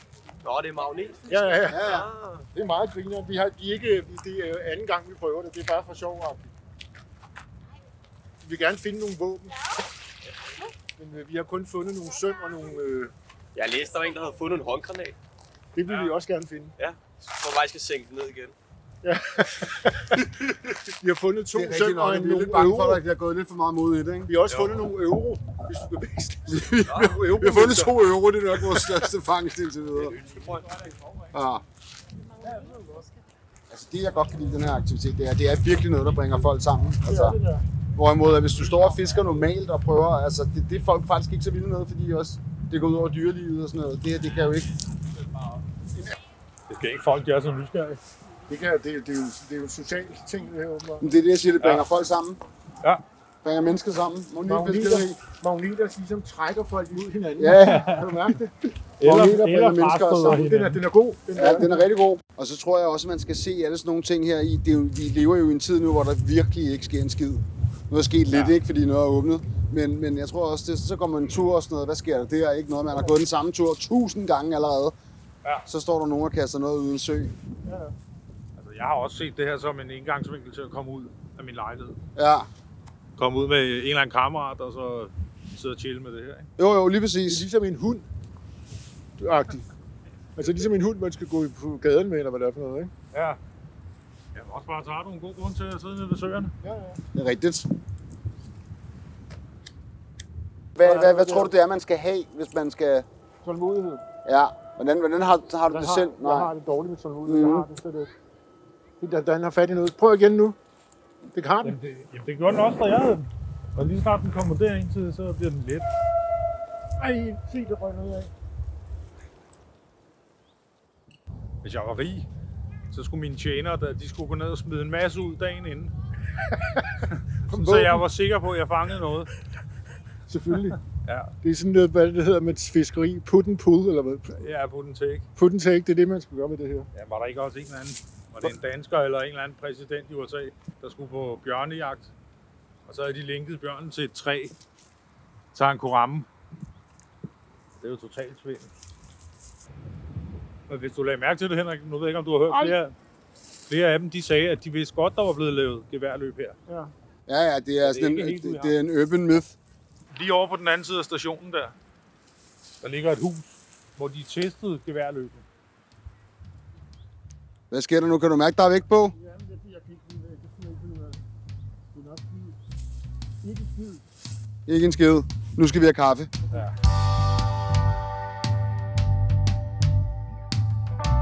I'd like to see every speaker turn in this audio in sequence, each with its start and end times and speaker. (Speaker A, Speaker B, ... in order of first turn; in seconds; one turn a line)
Speaker A: 0.4-2.5
Speaker B: 1.3-6.5
Speaker C: 1.7-2.1
Speaker B: 8.4-9.6
Speaker B: 11.0-13.1
Speaker A: 13.6-15.2
Speaker B: 15.8-16.8
Speaker A: 16.8-18.6
Speaker B: 19.0-20.3
Speaker B: 21.0-23.0
Speaker C: 21.5-24.3
Speaker B: 24.2-28.0
Speaker C: 26.5-30.2
Speaker A: 26.9-27.2
Speaker B: 28.7-29.0
Speaker A: 30.0-30.9
Speaker C: 31.3-31.6
Speaker B: 32.4-33.0
Speaker C: 33.7-37.4
Speaker B: 37.0-37.6
Speaker C: 38.0-44.7
Speaker D: 46.7-48.0
Speaker B: 48.5-51.1
Speaker C: 51.0-52.4
Speaker C: 53.4-55.2
Speaker B: 54.5-58.5
Speaker C: 57.4-58.1
Speaker D: 57.6-58.1
Speaker C: 59.0-60.5
Speaker D: 59.0-60.8
Speaker B: 60.0-61.9
Speaker C: 61.3-75.0
Speaker D: 68.3-68.5
Speaker C: 75.7-77.3
Speaker B: 77.7-78.0
Speaker D: 78.6-82.0
Speaker C: 82.2-82.5
Speaker D: 83.2-86.5
Speaker C: 86.6-87.5
Speaker B: 87.3-88.1
Speaker B: 89.2-89.6
Speaker B: 90.4-92.9
Speaker D: 93.1-93.4
Speaker D: 94.3-96.5
Speaker B: 96.6-97.0
Speaker C: 97.1-97.7
Speaker C: 100.8-103.1
Speaker B: 100.8-101.5
Speaker B: 103.4-104.0
Speaker C: 104.2-106.5
Speaker B: 105.7-108.1
Speaker C: 107.2-107.7
Speaker B: 109.0-110.6
Speaker B: 111.3-111.8
Speaker D: 111.6-115.9
Speaker B: 117.0-118.3
Speaker D: 121.6-122.3
Speaker D: 122.9-125.9
Speaker B: 126.7-128.1
Speaker D: 127.1-129.3
Speaker B: 130.3-130.8
Speaker D: 130.9-131.3
Speaker B: 131.4-134.4
Speaker D: 134.4-135.2
Speaker B: 135.4-136.9
Speaker D: 136.9-142.1
Speaker D: 142.9-144.6
Speaker D: 145.5-146.3
Speaker D: 147.8-148.7
Speaker D: 150.7-152.9
Speaker B: 152.5-152.8
Speaker D: 153.7-156.6
Speaker C: 157.3-159.6
Speaker D: 157.8-158.8
Speaker D: 160.1-161.8
Speaker D: 162.8-165.4
Speaker C: 167.7-169.2
Speaker B: 169.1-171.2
Speaker B: 171.9-172.6
Speaker B: 173.4-174.0
Speaker C: 174.7-176.3